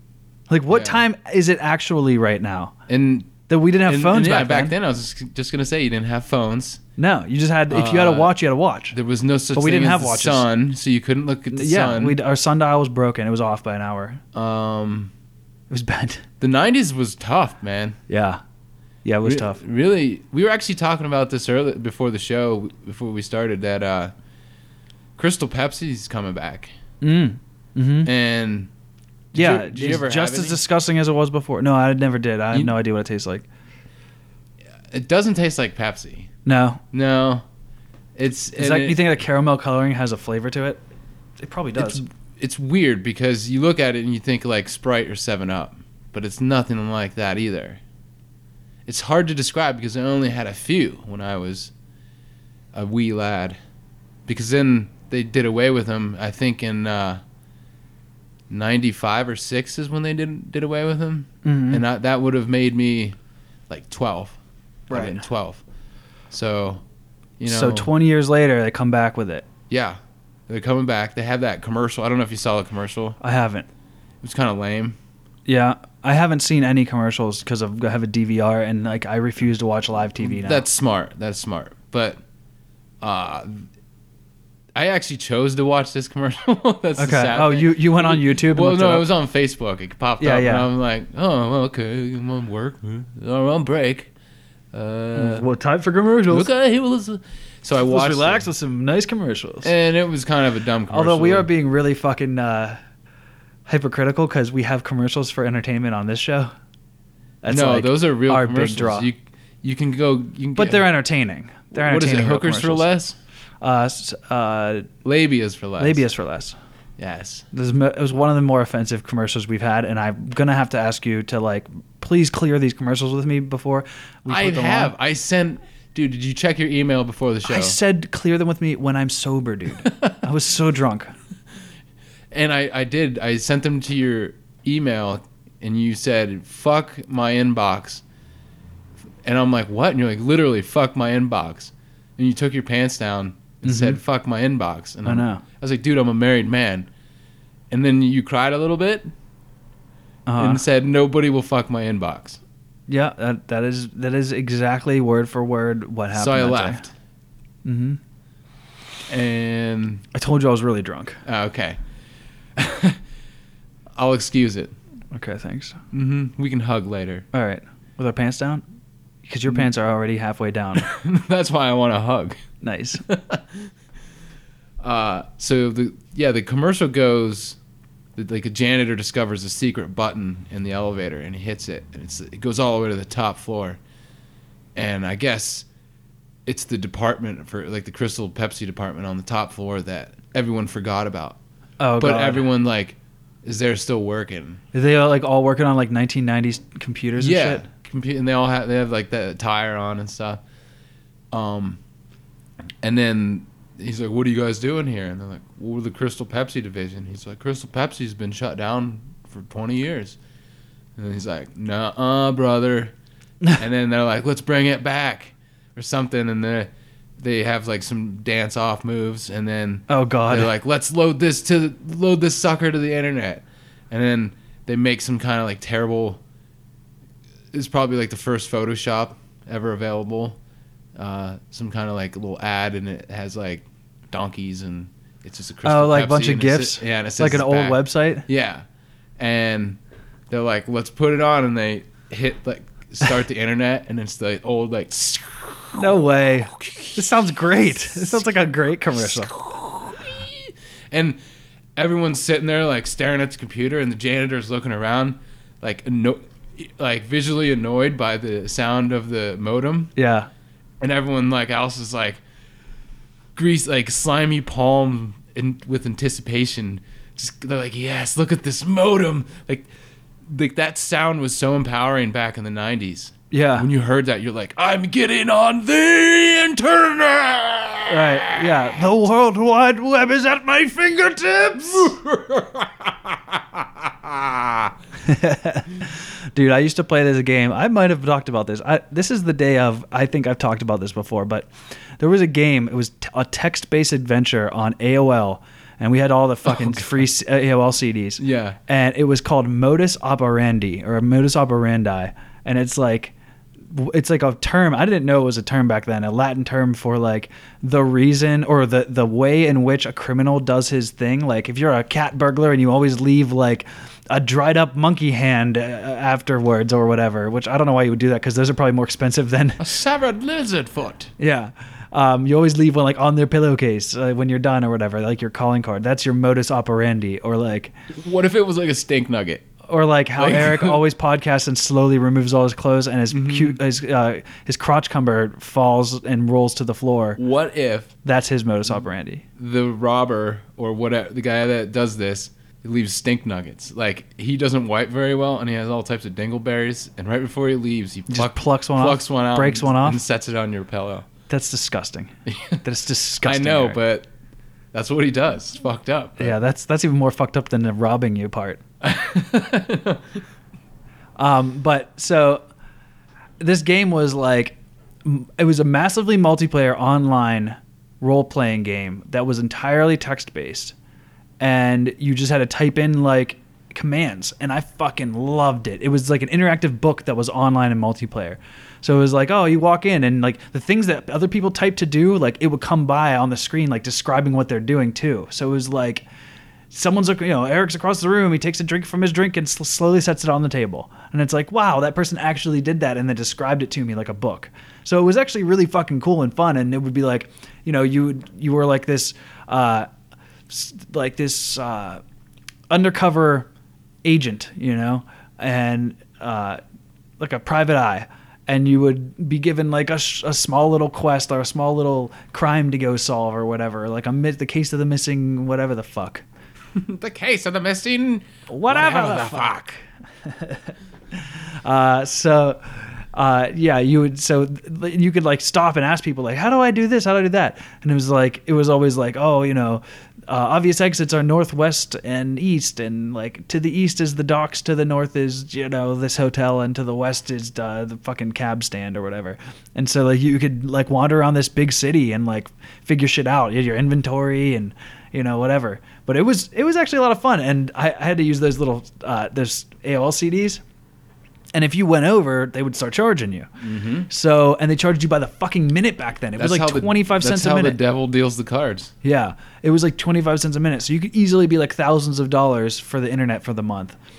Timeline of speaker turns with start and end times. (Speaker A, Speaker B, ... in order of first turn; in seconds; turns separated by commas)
Speaker A: 0.5-2.7, Speaker B: 0.7-1.0, Speaker B: 2.9-6.8, Speaker A: 3.5-4.7, Speaker A: 7.0-9.0, Speaker B: 7.7-8.4, Speaker B: 8.9-12.2, Speaker A: 9.5-10.5, Speaker A: 11.5-14.2, Speaker B: 14.3-15.1, Speaker A: 15.7-16.2, Speaker B: 16.4-18.0, Speaker A: 18.1-18.4, Speaker A: 19.1-19.6, Speaker B: 19.2-24.1, Speaker B: 25.2-26.7, Speaker A: 27.0-28.1, Speaker B: 28.1-28.7, Speaker B: 29.3-30.6, Speaker A: 29.3-33.5, Speaker B: 34.9-36.3, Speaker A: 36.5-36.8, Speaker B: 36.9-37.5, Speaker B: 38.2-39.0, Speaker A: 38.6-40.8, Speaker A: 41.4-42.0, Speaker B: 41.8-47.8, Speaker B: 48.9-51.7, Speaker B: 52.7-53.6, Speaker B: 54.3-57.2, Speaker B: 58.5-63.2, Speaker A: 61.4-61.8, Speaker B: 63.7-64.4, Speaker A: 64.9-65.2, Speaker B: 64.9-65.6, Speaker B: 66.3-66.8, Speaker B: 67.4-67.9, Speaker A: 67.5-69.5, Speaker B: 69.7-73.2, Speaker A: 73.2-73.7, Speaker B: 74.2-75.0, Speaker A: 75.5-80.7, Speaker B: 80.2-82.2, Speaker B: 83.0-83.7, Speaker B: 84.7-94.1, Speaker A: 87.0-89.1, Speaker A: 90.2-90.7, Speaker B: 94.7-95.5, Speaker A: 95.1-96.5, Speaker B: 96.3-98.5, Speaker A: 97.8-99.7, Speaker B: 99.6-101.5, Speaker A: 100.9-102.8, Speaker A: 103.7-106.5, Speaker A: 107.4-109.1, Speaker B: 107.5-110.9, Speaker A: 110.6-112.9, Speaker B: 111.7-113.2, Speaker A: 113.6-114.9, Speaker B: 115.0-116.0, Speaker A: 115.8-116.6, Speaker B: 117.0-117.5, Speaker A: 117.5-124.9, Speaker B: 124.3-127.8, Speaker A: 127.5-131.1, Speaker B: 132.3-138.0, Speaker B: 139.2-146.9, Speaker A: 143.6-144.0, Speaker A: 145.1-145.4, Speaker B: 147.7-149.1, Speaker A: 150.3-150.6, Speaker B: 150.4-152.4, Speaker A: 152.9-156.8, Speaker B: 156.1-156.9, Speaker A: 157.7-158.0, Speaker B: 159.1-160.0, Speaker A: 160.1-161.2, Speaker B: 161.2-161.8, Speaker B: 162.6-163.0, Speaker B: 163.9-164.8, Speaker A: 165.1-165.8, Speaker B: 165.9-167.3, Speaker A: 167.3-168.6, Speaker A: 169.3-170.9, Speaker B: 170.8-172.4, Speaker A: 172.6-173.0, Speaker B: 173.0-173.7, Speaker B: 174.8-177.6, Speaker B: 178.2-183.8, Speaker B: 184.8-185.7, Speaker B: 186.5-191.4, Speaker A: 191.8-192.5, Speaker B: 192.0-194.6, Speaker A: 194.7-197.7, Speaker B: 197.2-200.4, Speaker B: 201.3-201.8, Speaker B: 202.8-210.2, Speaker B: 211.0-212.9, Speaker B: 213.6-226.2, Speaker A: 219.9-220.5, Speaker B: 227.5-230.4, Speaker B: 231.0-238.7, Speaker A: 235.6-238.2, Speaker B: 239.2-239.8, Speaker B: 240.3-246.0, Speaker A: 245.8-249.3, Speaker B: 246.5-247.0, Speaker B: 249.0-251.2, Speaker B: 251.8-259.9, Speaker A: 260.0-260.3, Speaker B: 260.8-262.2, Speaker B: 263.4-269.7, Speaker B: 270.3-278.4, Speaker A: 273.3-273.7, Speaker A: 277.9-281.9, Speaker B: 281.6-284.7, Speaker A: 285.1-303.1, Speaker B: 296.5-296.9, Speaker B: 298.2-298.6, Speaker A: 303.7-319.6, Speaker B: 319.6-321.1, Speaker A: 321.2-327.7, Speaker B: 327.9-329.5, Speaker A: 329.7-337.2, Speaker B: 330.2-330.8, Speaker B: 333.1-333.6, Speaker B: 337.2-337.9, Speaker A: 338.1-339.2, Speaker B: 339.4-351.1, Speaker A: 348.1-350.0, Speaker A: 351.3-353.8, Speaker B: 352.3-352.6, Speaker B: 353.2-354.1, Speaker B: 354.7-356.4, Speaker A: 356.2-358.6, Speaker B: 358.8-360.2, Speaker A: 361.2-362.4, Speaker A: 363.4-370.8, Speaker A: 371.4-386.1, Speaker A: 386.7-399.9, Speaker A: 400.5-402.0, Speaker A: 402.7-403.5, Speaker A: 404.0-406.6, Speaker A: 407.2-416.2, Speaker B: 416.7-419.8, Speaker A: 418.5-419.5, Speaker A: 420.2-450.6, Speaker A: 451.5-453.5, Speaker B: 453.6-454.1, Speaker A: 454.1-457.8, Speaker B: 456.4-458.9, Speaker A: 459.0-464.0